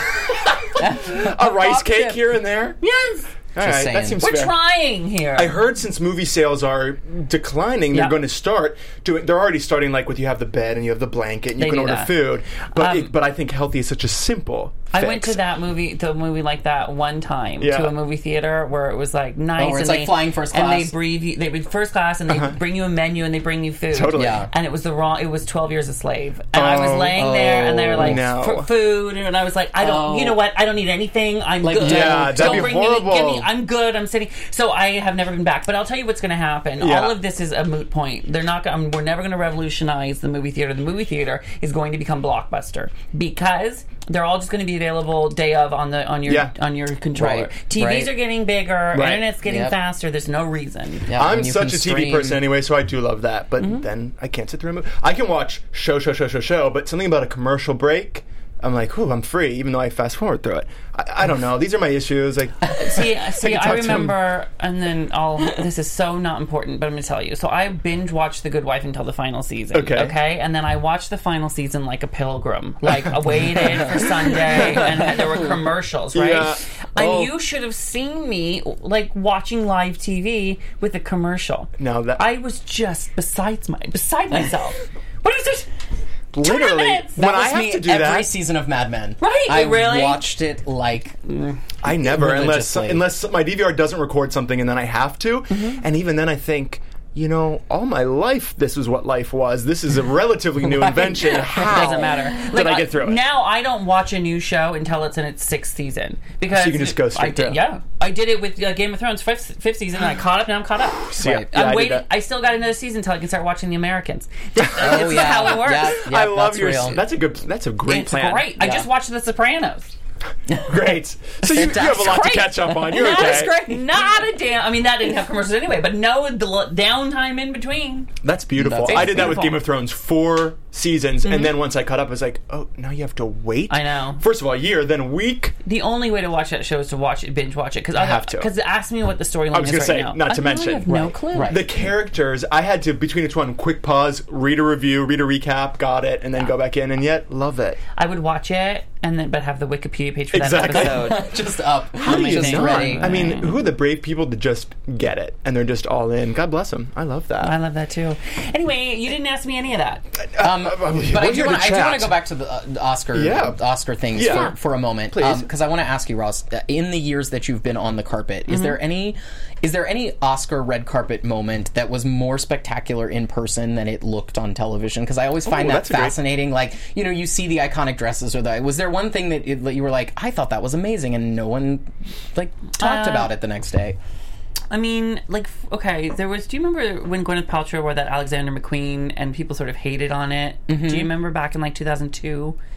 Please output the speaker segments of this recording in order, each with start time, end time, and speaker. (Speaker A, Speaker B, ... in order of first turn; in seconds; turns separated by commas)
Speaker A: 0.3-2.8, Speaker B: 0.8-2.2, Speaker C: 2.8-3.3, Speaker A: 3.5-4.5, Speaker B: 3.6-4.2, Speaker C: 4.2-5.6, Speaker A: 5.3-15.4, Speaker C: 11.6-13.1, Speaker C: 14.9-51.1, Speaker A: 17.6-17.9, Speaker B: 19.6-20.9, Speaker A: 22.3-22.6, Speaker A: 23.9-24.4, Speaker B: 24.1-24.5, Speaker A: 26.5-27.2, Speaker B: 27.1-28.2, Speaker A: 28.0-28.7, Speaker B: 29.8-30.4, Speaker B: 31.6-32.8, Speaker A: 31.8-33.5, Speaker A: 36.8-37.1, Speaker A: 46.2-46.5, Speaker B: 47.1-48.1, Speaker A: 48.9-49.2, Speaker B: 49.4-49.8, Speaker B: 51.1-52.4, Speaker A: 51.1-64.2, Speaker C: 62.8-85.7, Speaker A: 69.7-70.2, Speaker B: 73.6-75.5, Speaker A: 76.1-76.6, Speaker B: 77.0-77.3, Speaker A: 81.8-82.2, Speaker A: 86.3-88.3, Speaker C: 86.4-87.2, Speaker B: 87.2-91.2, Speaker C: 89.2-90.3, Speaker A: 91.8-103.2, Speaker B: 91.8-93.1, Speaker B: 100.6-102.3, Speaker C: 101.2-116.0, Speaker A: 106.5-107.6, Speaker A: 111.1-112.0, Speaker B: 111.2-111.5, Speaker B: 114.8-117.0, Speaker A: 114.8-118.5, Speaker C: 117.9-119.9, Speaker B: 118.6-118.9, Speaker B: 120.5-120.8, Speaker A: 120.6-123.6, Speaker B: 121.4-123.8, Speaker C: 121.5-128.1, Speaker A: 128.2-135.5, Speaker B: 128.6-129.4, Speaker C: 128.8-129.6, Speaker C: 131.2-131.5, Speaker C: 133.7-134.2, Speaker C: 135.6-141.7, Speaker A: 137.9-138.5, Speaker A: 139.5-147.8, Speaker B: 140.9-141.6, Speaker C: 147.9-151.4, Speaker A: 150.3-151.2, Speaker B: 150.7-153.3, Speaker C: 152.0-153.6, Speaker A: 152.0-157.5, Speaker C: 157.4-160.0, Speaker A: 160.3-162.2, Speaker B: 160.4-184.0, Speaker A: 163.1-163.6, Speaker A: 164.1-165.5, Speaker C: 164.2-164.5, Speaker C: 168.5-168.8, Speaker A: 175.4-176.2, Speaker C: 182.8-183.3, Speaker C: 184.7-192.6, Speaker B: 190.7-191.1